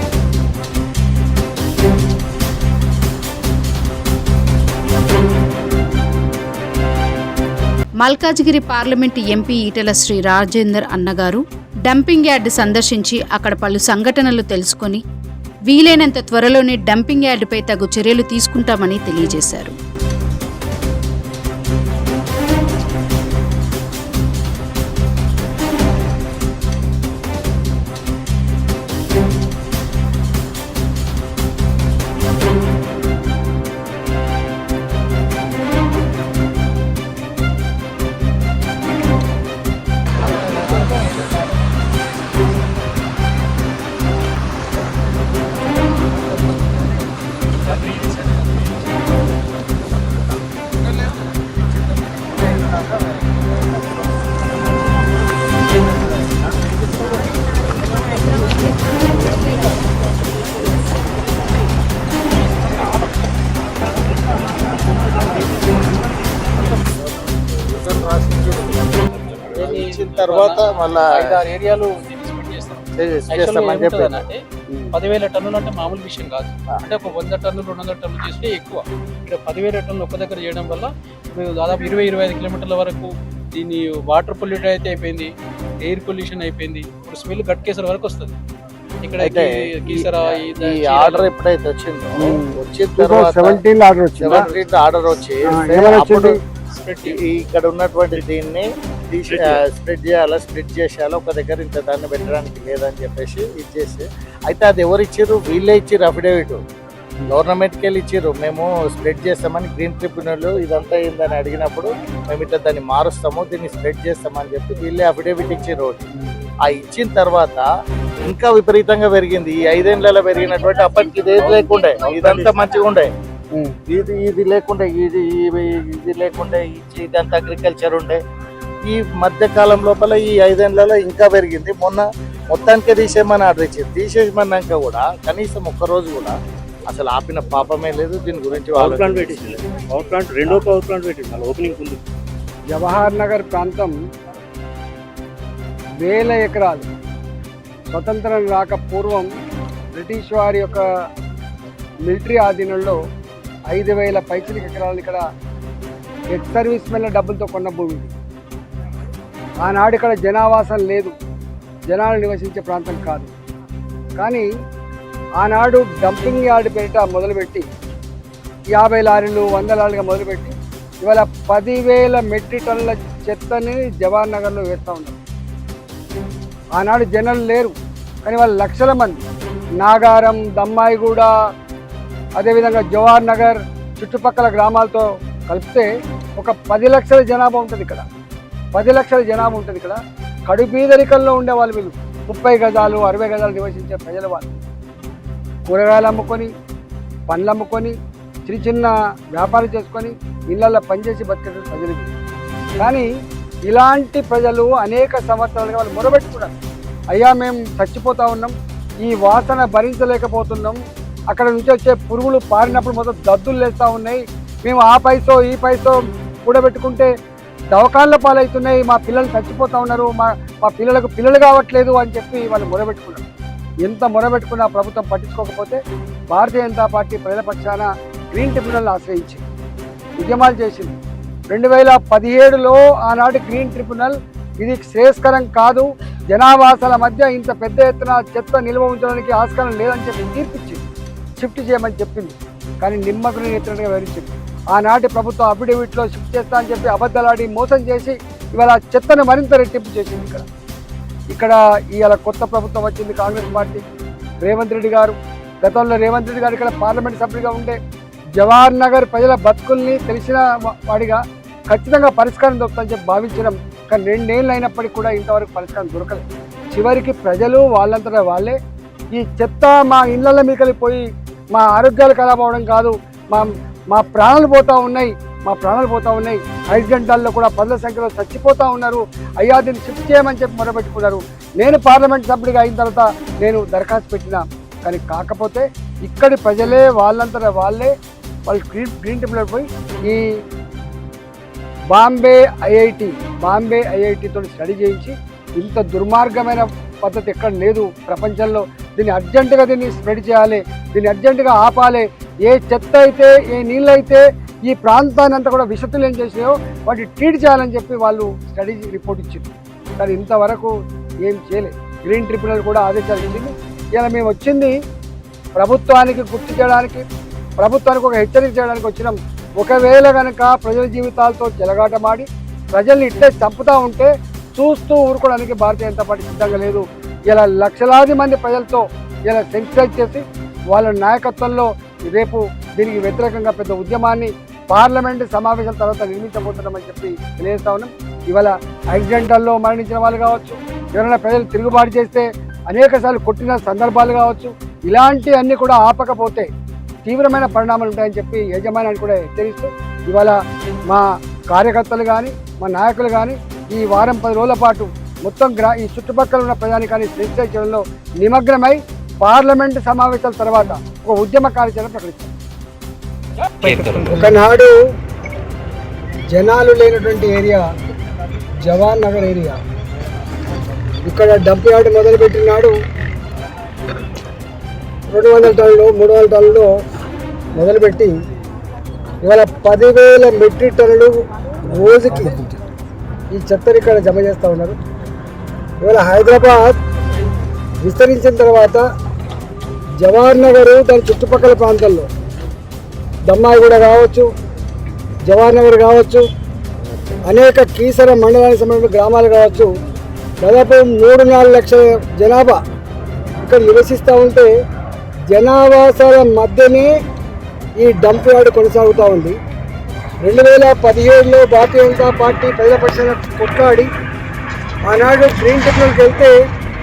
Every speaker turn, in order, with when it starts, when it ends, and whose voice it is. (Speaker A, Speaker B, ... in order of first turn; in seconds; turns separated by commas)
Speaker A: 8.0-15.0, Speaker A: 15.7-19.8, Speaker B: 67.2-71.4, Speaker C: 69.6-74.4, Speaker B: 73.0-74.2, Speaker C: 74.9-85.3, Speaker C: 85.8-88.3, Speaker C: 89.0-91.3, Speaker B: 89.2-93.6, Speaker D: 92.2-94.5, Speaker B: 94.2-96.4, Speaker D: 95.5-96.4, Speaker C: 96.8-97.2, Speaker B: 97.0-106.6, Speaker E: 99.3-99.6, Speaker B: 107.3-116.0, Speaker B: 116.6-117.7, Speaker B: 118.2-123.1, Speaker B: 123.9-128.2, Speaker B: 128.9-136.3, Speaker B: 136.9-139.6, Speaker E: 138.8-142.0, Speaker D: 142.7-143.9, Speaker D: 146.0-146.8, Speaker D: 147.9-149.3, Speaker D: 149.9-150.8, Speaker D: 152.1-153.0, Speaker D: 153.7-155.2, Speaker D: 156.3-158.1, Speaker D: 159.6-161.1, Speaker D: 161.9-163.3, Speaker D: 164.2-164.5, Speaker D: 165.4-167.7, Speaker D: 168.8-175.2, Speaker D: 176.8-177.7, Speaker D: 178.2-179.2, Speaker D: 179.8-181.3, Speaker D: 182.4-188.0, Speaker D: 188.8-194.5, Speaker D: 195.7-196.5, Speaker D: 197.3-197.9, Speaker D: 198.4-202.1, Speaker D: 202.8-203.1, Speaker D: 203.7-206.5, Speaker D: 207.1-210.8, Speaker D: 211.3-217.1, Speaker D: 217.7-223.2, Speaker D: 223.8-225.8, Speaker D: 226.3-229.4, Speaker D: 230.2-231.0, Speaker D: 231.5-240.8, Speaker D: 241.4-250.4, Speaker D: 251.3-253.8, Speaker D: 254.4-257.8, Speaker D: 258.4-268.6, Speaker D: 269.1-271.0, Speaker D: 271.6-287.9, Speaker D: 288.5-290.2, Speaker D: 291.9-314.8, Speaker D: 315.6-317.0, Speaker D: 317.6-346.5, Speaker D: 347.1-350.4, Speaker D: 350.9-362.3, Speaker D: 363.9-364.8, Speaker D: 366.3-367.7, Speaker D: 368.7-369.6, Speaker D: 371.1-372.8, Speaker D: 375.1-376.7, Speaker D: 377.6-378.1, Speaker D: 379.2-382.4, Speaker D: 383.3-384.8, Speaker D: 385.8-386.8, Speaker D: 387.8-388.8, Speaker D: 390.0-392.1, Speaker D: 393.3-394.3, Speaker D: 395.2-396.2, Speaker D: 397.3-399.7, Speaker D: 400.4-402.6, Speaker D: 403.4-404.5, Speaker D: 405.3-406.9, Speaker D: 407.8-409.4, Speaker D: 410.2-413.9, Speaker D: 414.9-416.3